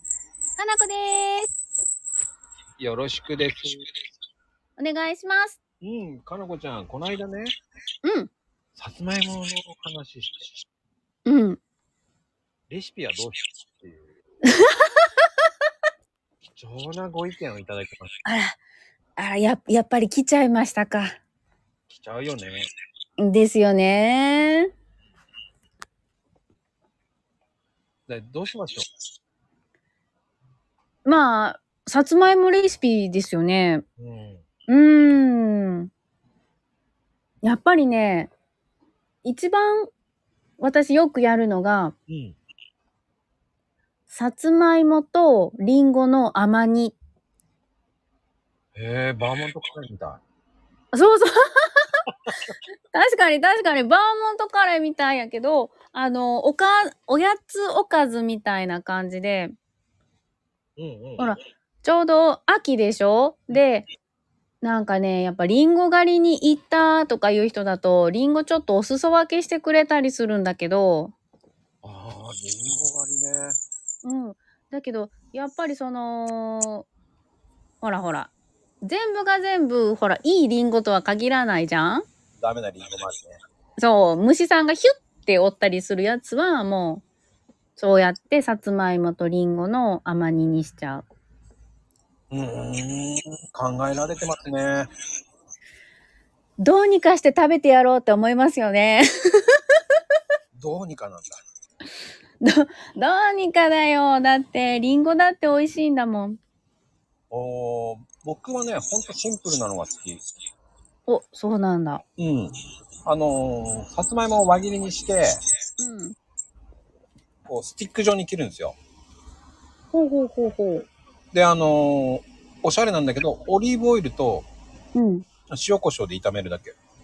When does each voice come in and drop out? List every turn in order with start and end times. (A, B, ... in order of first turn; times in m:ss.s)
0:00.6-0:01.5 A
0:02.8-0:03.8 B
0:04.8-0:05.6 A
0:05.8-0:07.5 B
0:08.0-0:08.3 A
0:08.8-0:10.5 B
0:11.2-0:11.6 A
0:12.7-0:14.1 B
0:14.5-0:15.0 A
0:16.4-0:18.1 B
0:18.2-0:18.6 A
0:19.2-0:21.1 A
0:21.9-0:22.6 B
0:23.2-0:24.7 A
0:28.1-0:28.8 B
0:31.0-0:33.8 A
0:34.0-0:34.4 B
0:34.7-0:35.9 A
0:37.4-0:38.3 A
0:39.2-0:39.9 A
0:40.6-0:41.9 A
0:42.1-0:42.4 B
0:44.1-0:47.0 A
0:48.8-0:50.2 B
0:50.9-0:51.7 A
0:52.9-0:59.5 A
1:00.8-1:01.3 B
1:01.2-1:03.8 A
1:04.6-1:11.1 A
1:11.8-1:13.6 B
1:14.0-1:16.9 A
1:17.8-1:22.1 A
1:22.4-1:23.4 B
1:23.8-1:27.0 A
1:27.8-1:31.0 A
1:32.3-1:34.9 B
1:36.6-1:39.6 A
1:40.5-1:41.4 B
1:42.4-1:46.4 A
1:47.3-1:50.2 B
1:51.1-1:52.0 A
1:52.2-1:52.5 B
1:53.0-1:55.4 B
1:55.8-1:56.1 A
1:57.5-1:58.8 B
1:59.9-2:00.9 A
2:01.3-2:04.5 B
2:04.9-2:05.2 A
2:05.5-2:06.8 B